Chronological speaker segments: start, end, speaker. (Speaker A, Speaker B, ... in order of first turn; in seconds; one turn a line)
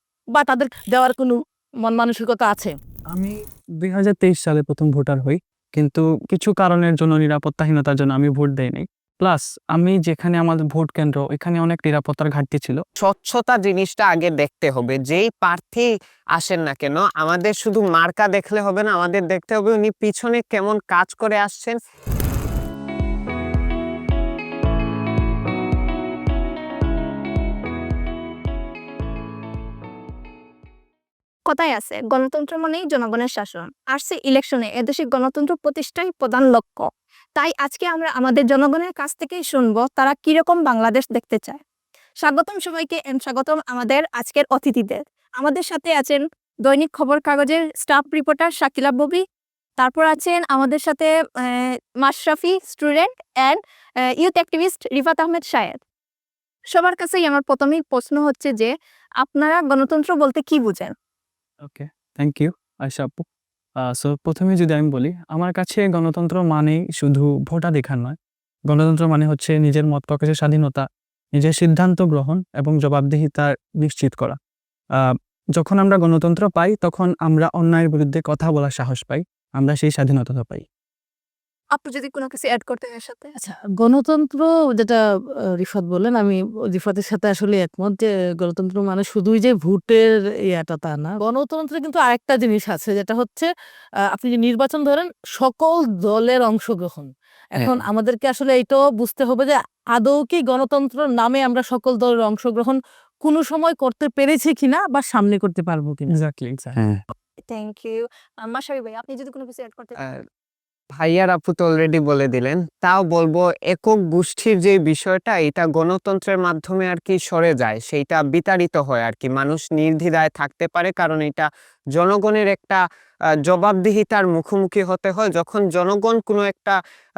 Speaker A: 0.3-2.7
Speaker B: 3.1-12.8
Speaker C: 13.0-21.8
Speaker D: 31.5-41.6
Speaker D: 42.2-49.2
Speaker D: 49.8-53.6
Speaker D: 54.1-55.8
Speaker D: 56.7-58.7
Speaker D: 59.2-60.9
Speaker B: 61.6-63.2
Speaker B: 63.8-68.2
Speaker B: 68.7-74.4
Speaker B: 75.0-80.7
Speaker D: 81.7-83.3
Speaker A: 83.4-85.0
Speaker A: 85.6-93.5
Speaker A: 94.1-106.1
Speaker C: 97.6-97.8
Speaker B: 106.1-106.8
Speaker D: 107.4-110.0
Speaker C: 111.0-122.8
Speaker C: 123.5-126.8